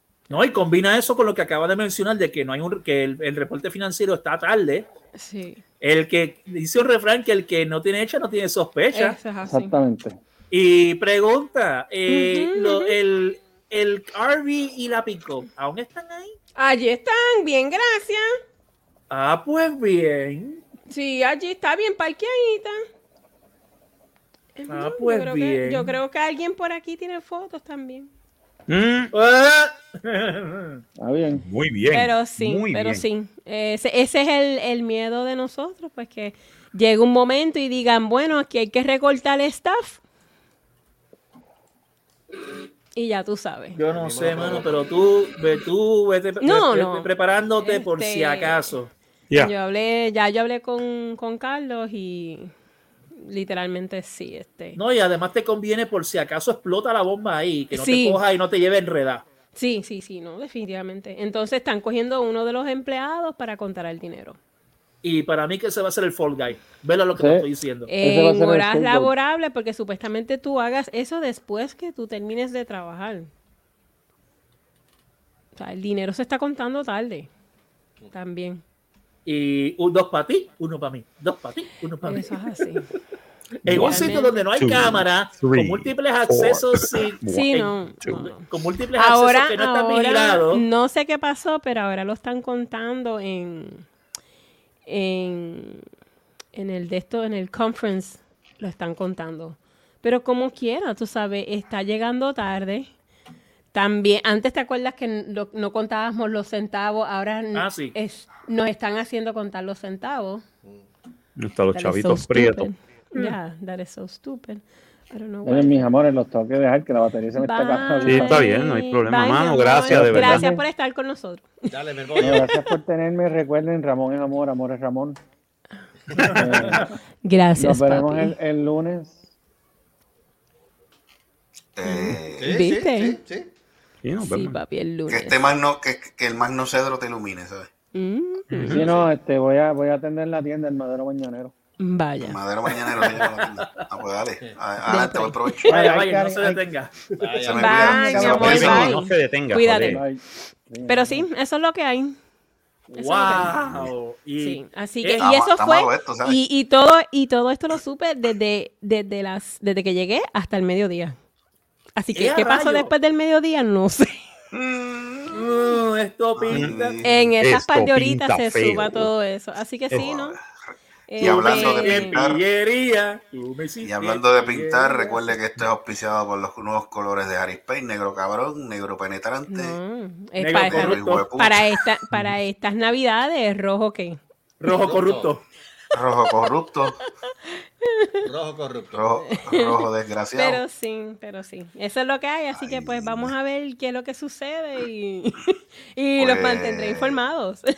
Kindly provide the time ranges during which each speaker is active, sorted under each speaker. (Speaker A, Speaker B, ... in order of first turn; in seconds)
Speaker A: 0.3-4.9, 5.8-9.2, 10.5-16.4, 19.1-20.6, 24.7-26.0, 29.1-30.8, 43.8-48.9, 54.8-59.3, 65.0-67.9, 79.3-82.6, 83.7-87.7, 88.3-90.7, 107.5-108.0, 126.2-126.8, 142.7-143.8, 145.7-147.4, 152.9-155.2, 162.1-162.9, 165.3-167.0, 171.2-175.4, 180.4-181.3, 184.6-185.4
Speaker B: 5.2-5.6, 8.9-9.8, 12.1-12.9, 16.6-18.4, 20.9-22.8, 24.6-28.1, 31.9-40.0, 43.0-43.8, 46.4-47.1, 47.6-48.8, 49.4-52.5, 53.1-54.8, 57.7-58.2, 59.5-64.4, 67.9-73.3, 75.6-77.3, 78.1-78.6, 82.0-82.9, 83.7-84.4, 87.3-88.5, 89.0-93.8, 94.9-95.8, 96.5-102.9, 103.7-110.4, 111.7-115.9, 117.4-122.8, 127.2-128.3, 131.8-133.2, 134.2-135.4, 137.9-138.8, 141.8-142.4, 144.8-145.7, 147.5-150.1, 150.9-152.2, 153.0-153.7, 154.4-161.2, 162.0-164.2, 167.0-170.4, 171.1-172.2, 179.5-184.2, 187.5-188.3, 189.3-197.7
Speaker C: 9.4-10.2, 31.0-31.4, 67.2-67.5, 68.0-69.1, 115.5-118.5, 119.9-120.6, 122.2-125.2, 126.2-127.0, 127.6-129.2, 138.7-141.5, 145.7-146.7, 147.3-148.9, 149.9-151.3
Speaker D: 28.7-29.1, 31.4-33.0, 83.7-88.3, 111.4-112.7, 118.0-120.5, 134.0-134.6, 138.5-138.9, 148.3-150.0, 167.4-169.1
Speaker E: 43.9-44.7, 121.7-122.4, 132.3-133.5, 147.2-147.9, 184.7-185.3, 188.2-189.1
Speaker F: 131.8-132.6, 135.1-137.7, 142.2-145.8, 147.4-149.0, 153.4-153.9, 155.2-156.4, 164.5-165.5, 166.4-167.3, 169.9-170.4, 171.2-172.4, 173.8-179.8, 180.6-181.8, 185.9-187.0, 188.9-190.6, 192.5-193.3, 196.2-197.2